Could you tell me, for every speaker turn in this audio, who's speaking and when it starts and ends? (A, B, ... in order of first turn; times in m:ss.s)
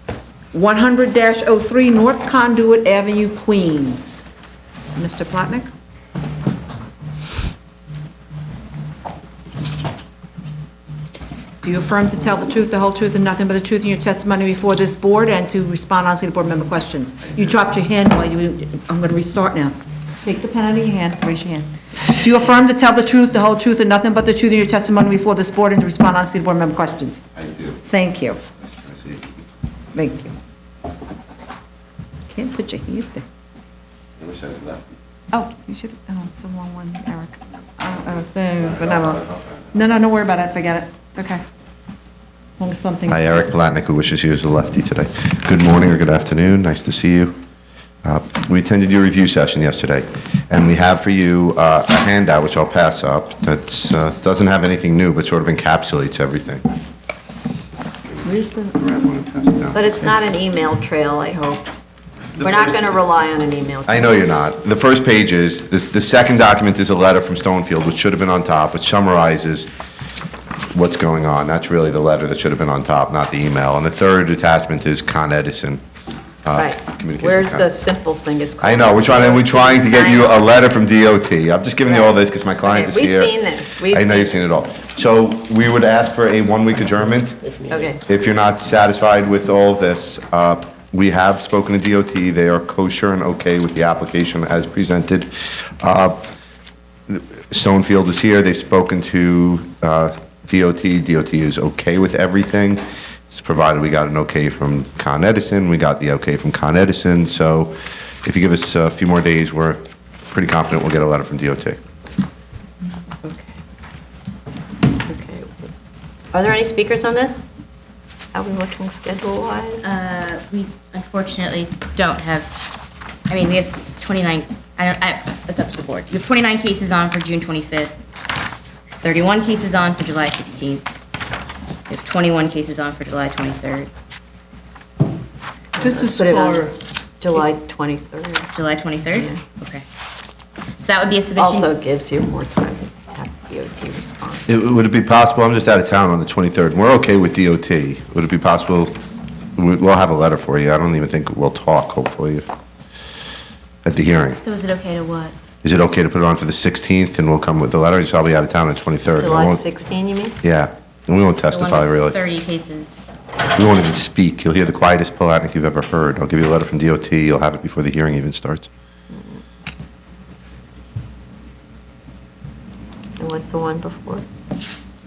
0:00.5-0:04.2 A
0:05.0-0:05.7 A
0:11.6-0:27.2 A
0:27.4-0:27.8 B
0:27.8-0:28.4 A
0:28.6-0:29.3 B
0:29.9-0:30.3 A
0:32.3-0:33.2 A
0:34.2-0:35.0 B
0:35.3-0:39.2 A
0:38.6-0:39.6 B
0:39.7-0:41.4 A
0:42.6-0:43.5 A
0:43.1-0:47.4 B
0:48.0-0:56.7 B
0:58.2-1:00.1 B
0:58.3-0:58.5 A
0:59.7-1:01.7 C
1:02.4-1:02.9 B
1:02.4-1:04.2 C
1:03.9-1:09.7 B
1:10.7-1:15.8 B
1:16.4-1:17.7 B
1:16.6-1:20.4 C
1:18.6-1:27.4 B
1:21.8-1:24.5 C
1:27.7-1:28.0 C
1:28.1-1:36.2 B
1:37.1-1:51.8 B
1:53.2-1:53.6 C
1:55.0-1:55.7 C
1:56.3-1:57.5 C
1:58.3-1:59.8 C
1:59.8-2:02.6 D
2:03.3-2:08.0 D
2:08.9-2:10.9 D
2:11.9-2:13.9 D
2:15.8-2:18.5 C
2:15.8-2:16.7 A
2:18.5-2:19.8 D
2:19.1-2:19.4 C
2:20.8-2:21.7 D
2:21.4-2:24.5 C
2:24.5-2:29.0 B
2:29.6-2:32.5 B
2:33.8-2:34.4 B
2:34.4-2:35.3 D
2:35.6-2:39.6 B
2:39.2-2:40.4 C
2:40.4-2:42.2 B
2:41.5-2:43.1 D
2:43.6-2:48.7 B
2:49.1-2:49.4 C
2:53.2-2:54.2 C